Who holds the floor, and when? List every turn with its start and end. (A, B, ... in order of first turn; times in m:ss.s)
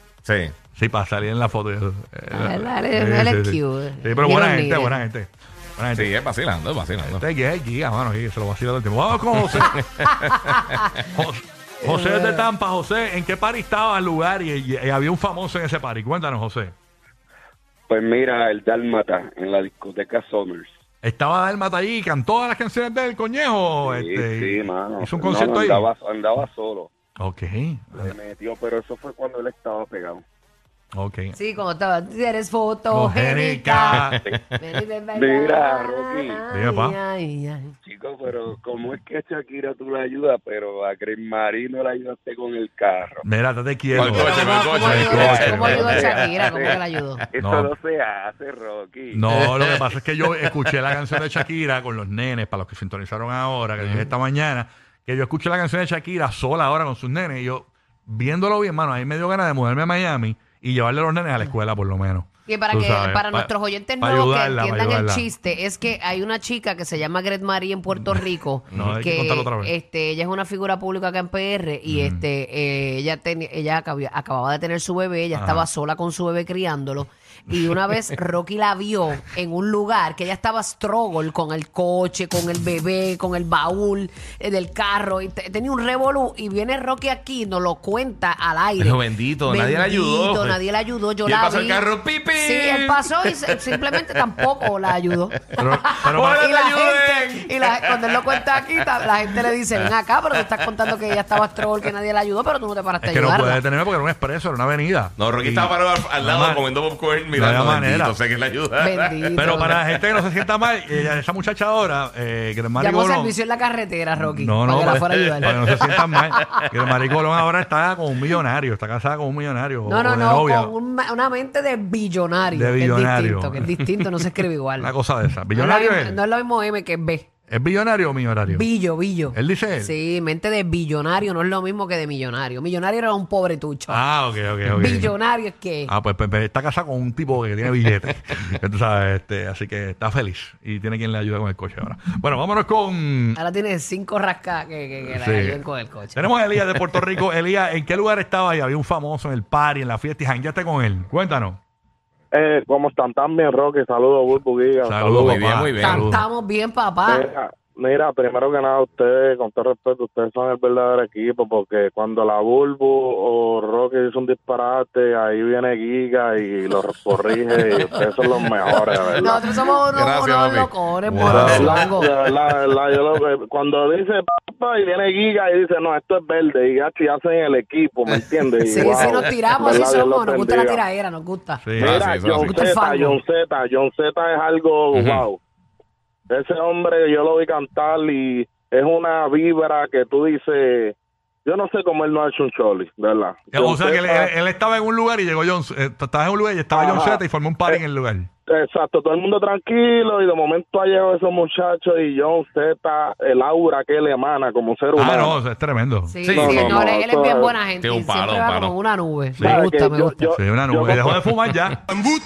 0:00.2-0:00.5 A
0:00.8-0:06.1 B
0:02.3-0:05.0 C
0:06.0-0:07.2 A
0:07.0-0:09.8 B
0:09.7-0:10.4 A
0:11.0-0:16.7 B
0:11.8-0:12.5 C
0:17.9-0:20.7 D
0:21.0-0:25.9 B
0:23.8-0:26.9 D
0:27.2-0:28.1 B
0:28.0-0:30.2 D
0:30.9-0:31.4 B
0:31.3-0:37.7 C
0:32.9-0:34.2 B
0:35.1-0:36.4 D
0:36.5-0:37.0 B
0:37.8-0:43.2 D
0:43.2-0:45.9 B
0:43.9-0:46.8 A
0:44.0-0:46.8 D
0:44.2-0:47.2 C
0:47.3-0:49.2 D
0:47.4-0:47.7 B
0:49.1-1:05.3 B
1:02.4-1:43.6 C
1:08.7-1:09.7 B
1:11.9-1:12.2 B
1:15.3-1:15.7 B
1:28.8-1:30.6 A
1:31.2-1:34.2 A
1:35.6-1:36.4 B
1:36.2-1:37.5 A
1:43.0-1:46.6 B
1:45.2-1:49.8 A
1:47.3-1:48.2 B
1:48.8-1:49.8 C
1:49.4-1:53.3 B
1:52.8-1:56.5 C
1:54.2-2:00.7 B
1:59.8-2:04.9 C
2:02.5-2:06.2 B
2:05.5-2:07.3 C
2:07.5-2:08.7 B
2:08.5-2:14.0 C
2:09.3-2:09.9 B
2:13.9-2:15.2 B
2:14.7-2:15.9 C
2:15.9-2:23.4 B
2:23.4-2:26.3 C
2:25.0-2:25.6 B
2:26.1-2:31.6 B
2:32.3-2:35.4 E
2:34.8-2:36.2 B
2:35.2-2:36.1 A
2:35.8-2:37.2 C
2:37.1-2:49.4 E
2:49.2-2:52.1 C
2:49.9-2:50.7 A
2:51.1-2:51.8 B
2:51.3-3:00.8 E
2:58.6-3:01.6 C
3:01.6-3:02.0 B
3:01.8-3:05.4 E
3:01.8-3:02.6 A
3:02.4-3:03.2 C
3:04.9-3:05.2 A
3:06.3-3:10.9 E
3:11.4-3:14.3 E
3:13.5-3:18.3 B
3:16.7-3:17.8 E
3:18.5-3:25.4 E
3:24.9-3:26.1 B
3:26.0-3:30.3 C
3:26.3-3:26.7 A
3:26.3-3:27.5 E
3:27.8-3:28.8 A
3:29.4-3:29.6 B
3:29.4-3:31.2 E
3:30.4-3:31.8 B